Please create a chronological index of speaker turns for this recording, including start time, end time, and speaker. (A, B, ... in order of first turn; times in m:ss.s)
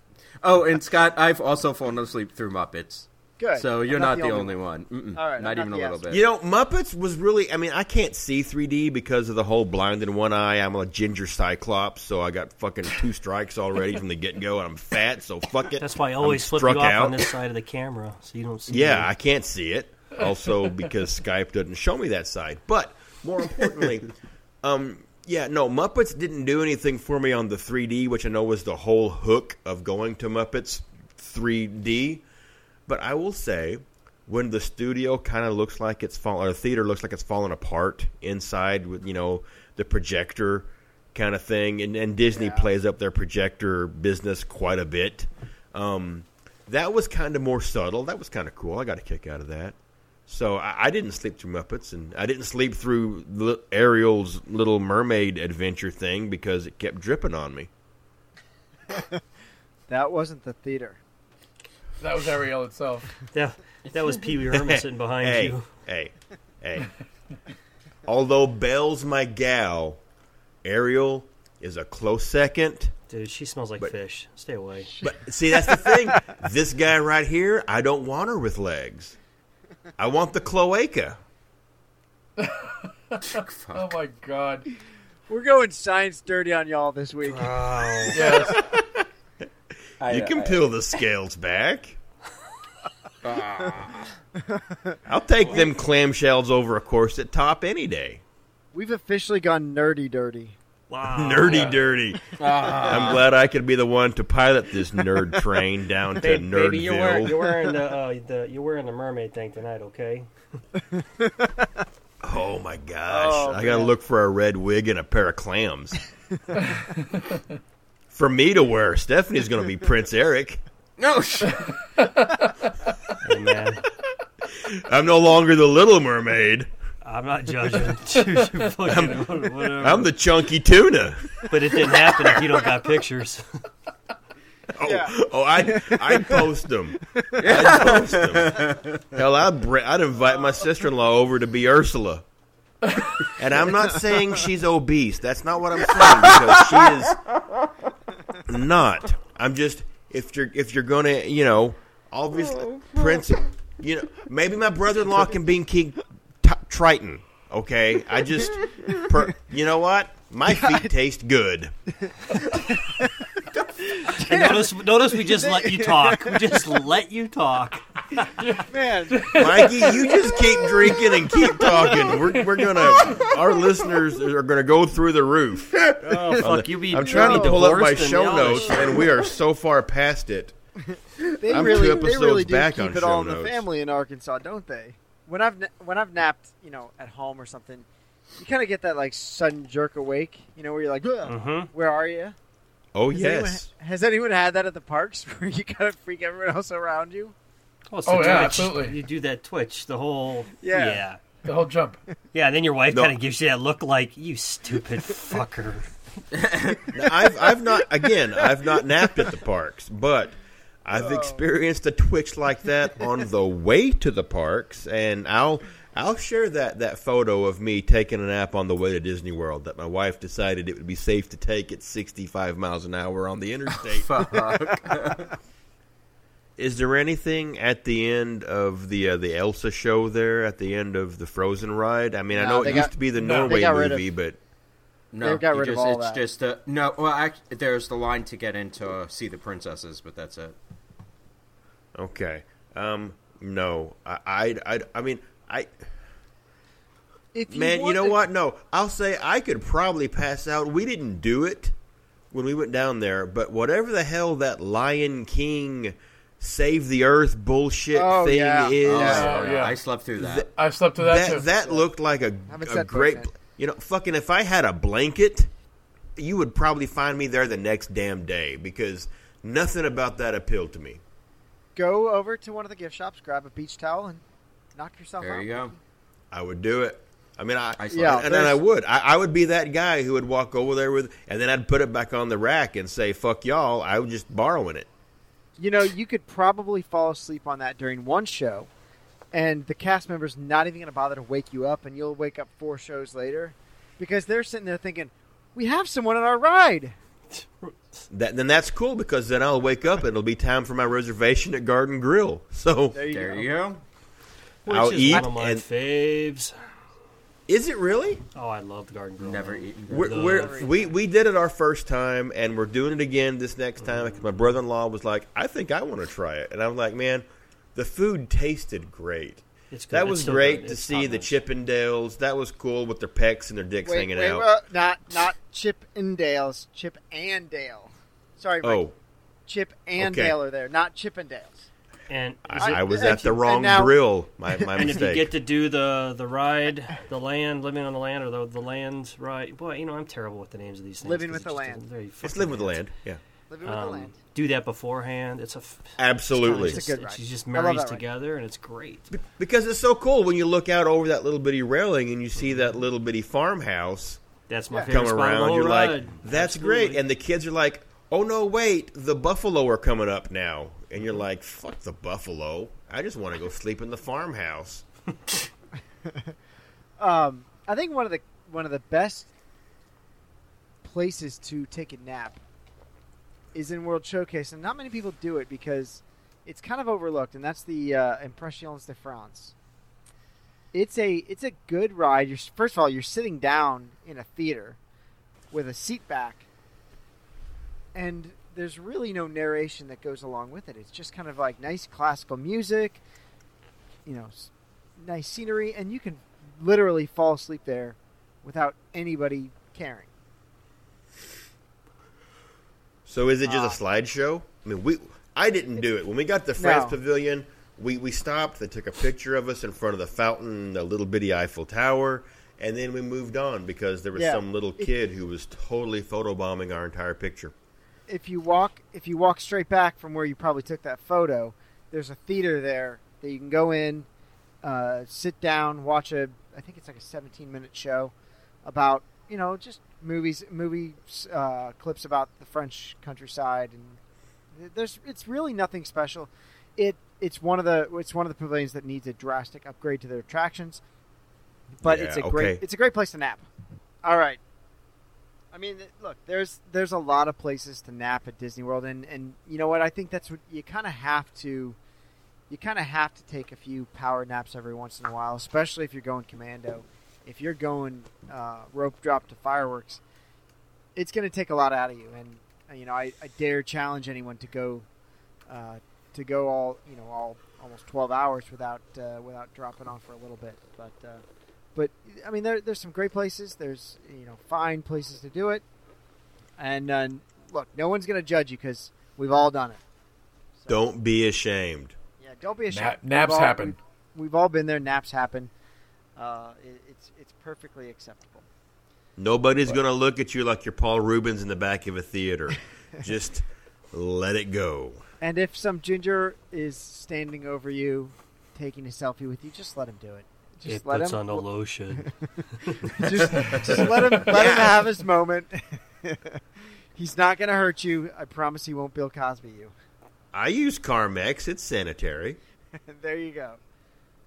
0:00.4-0:06.2 A
0:03.4-0:04.6 B
0:05.1-0:06.0 B
0:06.1-0:17.3 C
0:15.8-0:19.1 D
0:18.7-0:32.2 C
0:32.9-0:49.8 C
0:42.3-0:42.7 B
0:50.3-0:57.7 C
0:59.9-1:01.0 B
1:02.0-1:03.3 E
1:03.3-1:05.6 D
1:04.5-1:06.9 C
1:08.0-1:10.0 C
1:10.6-1:12.9 C
1:13.1-1:15.0 D
1:14.9-1:16.3 B
1:15.0-1:19.2 C
1:20.0-1:21.2 C
1:22.4-1:24.7 E
1:23.2-1:23.9 A
1:25.3-1:28.5 B
1:27.2-1:28.4 D
1:28.1-1:28.6 E
1:28.6-1:29.0 C
1:30.0-1:30.6 A
1:30.1-1:32.0 C
1:33.2-1:34.1 A
1:34.5-1:35.0 B
1:35.1-1:38.2 C
1:38.7-1:40.6 B
1:40.9-1:41.9 D
1:41.0-1:47.4 C
1:42.4-1:43.2 A
1:46.1-1:50.3 D
1:52.2-1:56.0 C
1:53.1-1:53.9 B
1:56.7-1:57.4 E
1:58.1-2:00.6 C
2:01.0-2:01.8 A
2:02.0-2:02.7 E
2:03.2-2:03.8 D
2:04.5-2:06.7 C
2:07.0-2:10.1 D
2:08.8-2:12.6 C
2:11.5-2:13.5 D
2:14.8-2:22.2 C
2:14.8-2:16.4 B
2:17.1-2:17.4 B
2:17.4-2:19.0 A
2:22.9-2:23.2 E
2:23.4-2:27.2 C
2:26.0-2:27.0 A
2:28.4-2:41.7 C
2:32.5-2:33.4 A
2:38.7-2:39.0 A
2:40.5-2:40.9 B
2:42.0-2:44.7 B
2:44.1-2:48.3 D
2:45.3-2:46.4 B
2:48.2-2:49.9 E
2:48.7-2:49.8 B
2:49.3-2:55.9 C
2:53.0-2:53.3 A
2:55.8-2:56.0 A
2:56.0-2:59.0 D
2:56.4-3:00.6 C
2:57.1-2:57.6 B
3:00.9-3:12.4 B
3:01.5-3:03.7 C
3:11.3-3:11.7 D
3:12.9-3:13.7 C
3:13.1-3:17.4 B
3:17.9-3:21.2 D
3:18.1-3:19.0 E
3:20.6-3:21.0 B
3:21.4-3:22.0 E
3:22.3-3:25.9 D
3:22.9-3:23.2 C
3:26.3-3:26.9 A
3:26.9-3:44.2 C
3:31.0-3:31.4 B
3:44.0-3:45.4 A
3:46.6-3:54.4 C
3:52.3-3:54.1 B
3:53.2-3:53.5 E
3:55.1-4:00.6 A
3:55.2-3:56.2 B
4:02.0-4:05.7 C
4:07.3-4:08.2 B
4:07.5-4:11.8 C
4:12.3-4:19.5 C
4:17.9-4:19.3 B
4:18.8-4:20.5 A
4:19.1-4:19.8 E
4:20.2-4:25.5 C
4:20.5-4:21.4 E
4:21.3-4:21.9 B
4:22.5-4:23.3 B
4:26.2-4:31.0 C
4:31.8-4:34.2 B
4:34.8-4:35.8 B
4:35.2-4:35.7 A
4:36.3-4:44.9 C
4:37.8-4:38.3 A
4:37.9-4:38.6 B
4:45.6-4:48.7 B
4:49.3-4:57.0 B
4:57.4-4:58.1 D
4:58.1-5:03.0 C
5:02.9-5:03.5 B
5:03.1-5:03.8 A
5:04.7-5:06.5 D
5:04.7-5:05.6 C
5:07.5-5:08.2 C
5:08.3-5:10.7 D
5:09.2-5:10.3 A
5:09.9-5:24.5 C
5:10.2-5:10.9 B
5:19.7-5:21.3 D
5:23.8-5:28.9 B
5:28.6-5:28.9 C
5:29.5-5:31.7 B
5:30.0-5:30.4 C
5:32.1-5:32.8 D
5:32.5-5:35.3 C
5:32.6-5:34.0 B
5:34.7-5:42.8 D
5:41.0-5:41.9 B
5:42.2-5:43.2 C
5:43.5-5:44.2 B
5:43.6-5:49.1 D
5:46.0-5:46.8 C
5:46.4-5:48.0 B
5:49.1-5:54.2 C
5:54.5-5:57.0 D
5:54.8-6:04.8 C
6:07.0-6:09.3 B
6:10.8-6:12.4 B
6:13.5-6:19.6 B
6:20.7-6:24.8 B
6:25.5-6:26.5 B
6:28.0-6:33.0 B
6:34.1-6:40.1 B
6:43.1-6:57.5 C
6:43.4-6:43.8 B
6:46.6-6:47.0 B
6:54.2-6:54.9 B
6:58.1-7:04.1 B
7:04.6-7:08.1 B
7:08.6-7:14.0 B
7:14.5-7:20.8 B
7:21.8-7:22.6 C
7:21.8-7:23.5 B
7:24.0-7:24.4 B
7:25.5-7:31.8 B
7:32.5-7:40.0 B
7:41.0-7:44.9 B
7:45.5-7:51.2 B
7:51.8-7:55.6 B
7:56.6-7:59.8 B
8:00.6-8:00.8 B
8:00.7-8:02.0 C
8:02.2-8:05.5 B
8:02.7-8:03.8 E
8:06.2-8:08.5 B
8:09.2-8:15.0 C
8:15.2-8:21.5 B
8:20.7-8:23.1 D
8:22.8-8:26.4 B
8:23.4-8:23.7 A
8:24.2-8:24.9 C
8:27.0-8:29.7 B
8:30.3-8:32.4 C
8:32.8-8:33.6 B